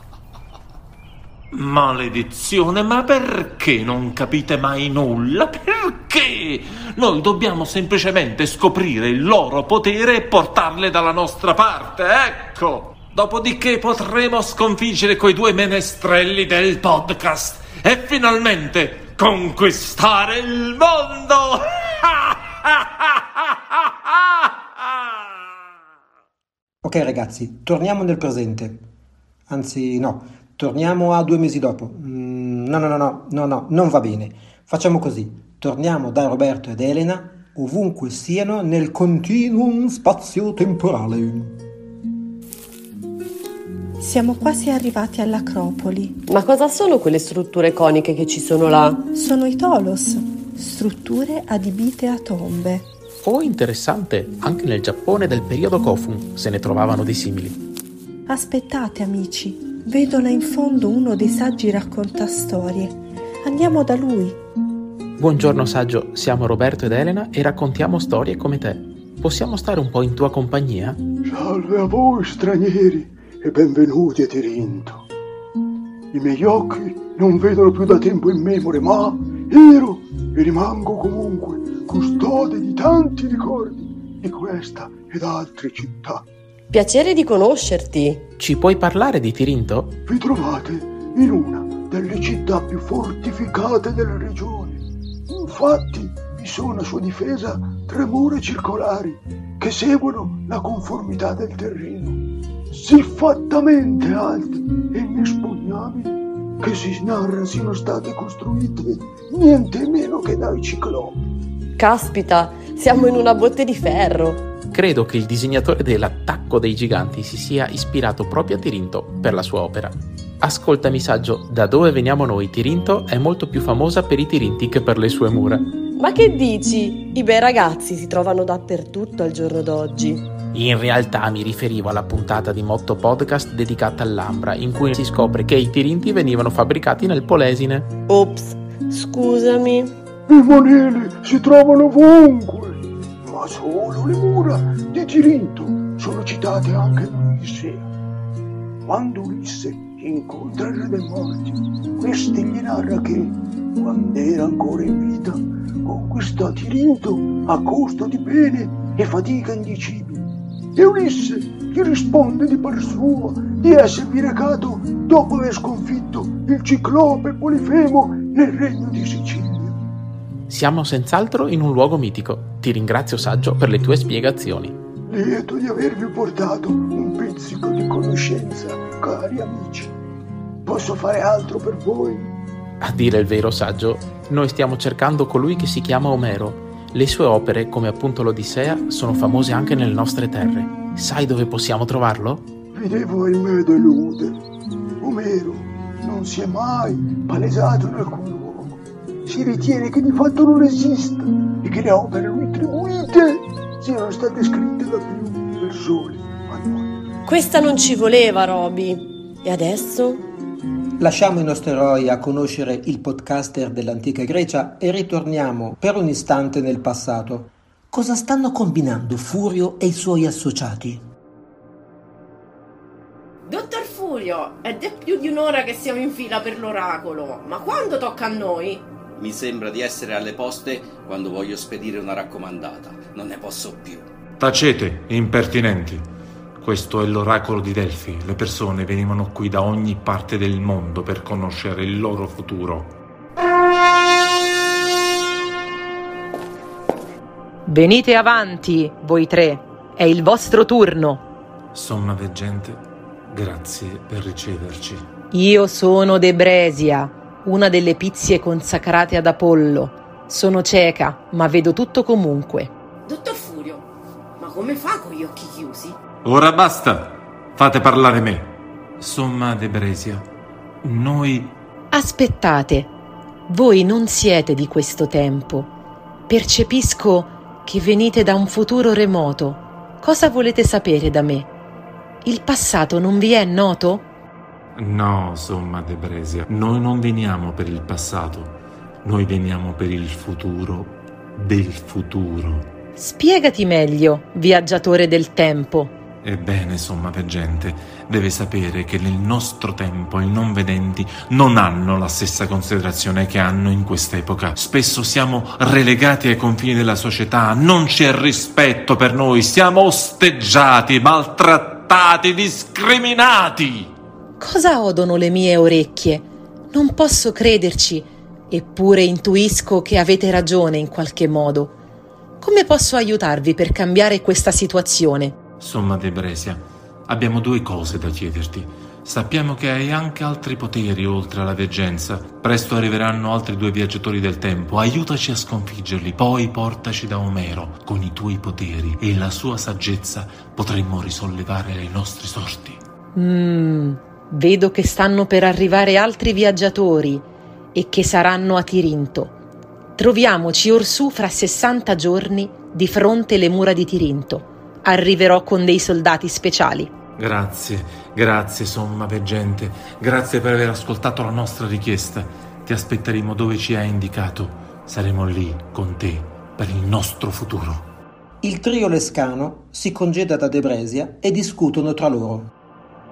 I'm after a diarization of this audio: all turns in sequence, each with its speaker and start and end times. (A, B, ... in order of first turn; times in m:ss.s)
0:01.5-0:22.8 A
0:26.8-0:28.8 B
0:29.5-0:41.6 B
0:44.0-0:46.2 C
0:46.3-0:49.1 D
0:49.1-0:52.9 C
0:53.2-0:57.6 E
0:58.3-1:04.4 C
1:05.2-1:11.0 E
1:11.2-1:15.1 F
1:16.1-1:26.2 F
1:26.7-1:28.3 D
1:28.4-1:29.9 E
1:30.1-1:51.2 F
1:51.8-1:54.5 D
1:54.7-2:05.7 E
2:05.9-2:10.3 D
2:10.5-2:17.9 E
2:18.1-2:19.9 D
2:20.3-2:27.9 F
2:28.8-2:49.8 F
2:50.5-2:54.8 E
2:55.1-2:59.9 F
3:00.6-3:02.3 F
3:02.8-3:12.5 E
3:12.7-3:14.4 F
3:15.0-3:26.9 F
3:27.2-3:30.3 D
3:31.0-3:41.1 B
3:43.4-3:48.8 G
3:49.2-3:54.1 H
3:54.4-3:56.1 A
3:56.6-4:03.0 A
4:07.6-4:11.2 I
4:11.7-4:15.1 A
4:15.3-4:22.7 I
4:23.0-4:26.0 G
4:26.2-4:30.3 A
4:30.8-4:31.6 A
4:31.9-4:32.9 I
4:33.5-4:35.7 I
4:36.3-4:41.5 I
4:42.2-4:44.0 I
4:44.8-4:52.7 A
4:53.0-4:55.9 I
4:56.2-5:13.9 A
5:14.4-5:21.7 I
5:22.4-5:25.4 I
5:25.6-5:42.8 A
5:43.1-5:47.2 I
5:47.8-5:49.3 I
5:50.0-5:56.9 I
5:57.2-6:07.9 A
6:08.4-6:12.5 B